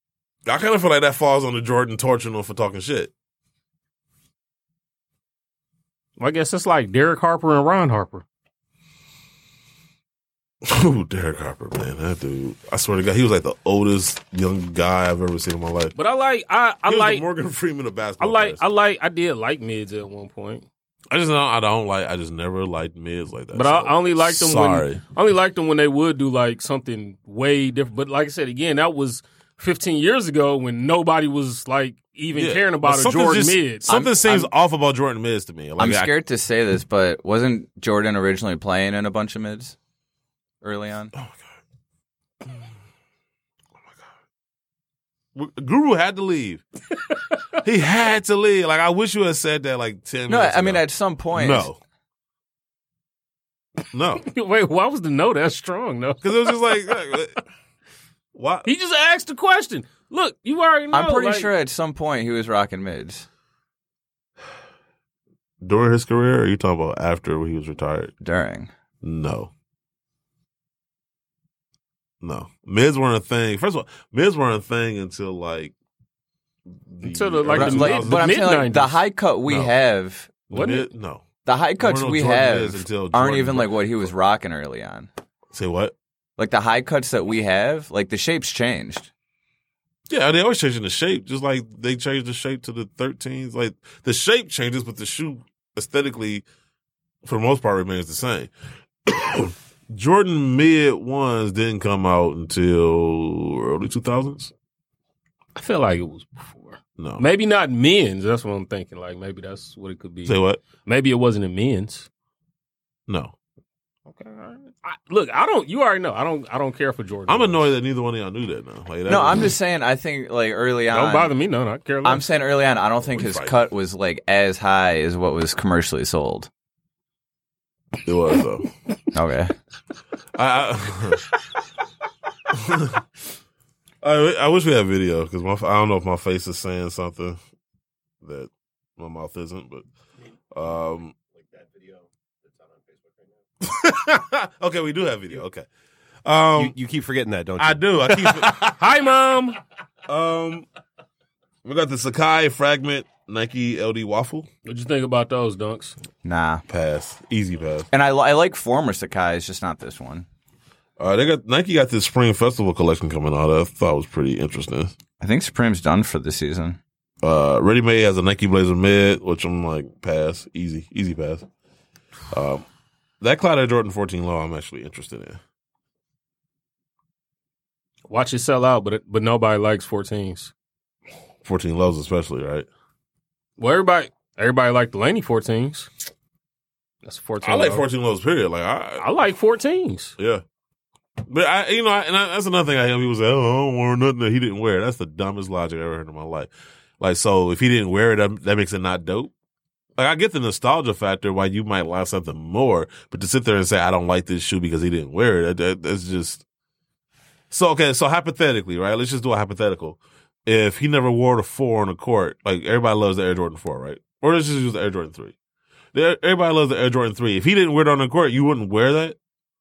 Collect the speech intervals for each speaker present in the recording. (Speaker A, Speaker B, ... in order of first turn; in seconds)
Speaker A: 0.5-3.1, 10.6-15.9, 16.9-18.6, 21.1-25.0, 32.3-36.1, 45.3-46.6, 47.6-51.8, 53.9-54.2, 56.2-57.4, 58.3-58.7, 65.6-68.1, 69.0-69.5, 72.2-75.7, 76.9-78.4, 79.5-79.7, 80.5-81.2, 81.8-83.8, 85.5-85.9, 90.1-96.4, 97.2-98.5, 99.1-104.5, 107.0-107.2, 110.2-110.6, 113.1-113.3, 117.3-119.5, 123.1-123.6, 128.0-128.7, 130.3-131.3, 132.5-133.0, 134.0-137.4, 138.2-139.8, 140.5-141.1, 143.6-145.7, 146.2-146.8, 147.6-148.8, 150.1-150.7, 151.6-154.5, 156.7-157.9, 161.0-164.9, 167.2-171.4, 172.3-172.6, 173.2-175.4, 181.4-182.7, 187.4-189.1, 190.2-190.4, 191.3-199.3, 200.0-206.4, 207.5-215.3, 215.9-219.2
Speaker B: 6.2-8.2, 15.9-17.2, 18.2-20.6, 23.5-33.9, 54.2-56.8, 58.6-61.5, 77.0-79.0, 80.5-80.9, 105.5-112.1, 114.1-117.7, 120.9-122.3, 148.6-149.6, 154.6-156.0, 178.1-180.5, 183.6-185.9, 187.0-187.8, 189.0-190.1
Speaker C: 33.9-34.5, 35.8-39.8, 40.6-41.1, 50.3-51.7, 60.9-63.2, 68.2-68.7, 77.5-80.5, 81.5-85.1, 86.4-89.1, 119.1-121.3, 122.0-126.5, 129.1-129.5, 156.2-156.6, 157.9-160.2, 165.2-166.8
Speaker D: 146.6-148.6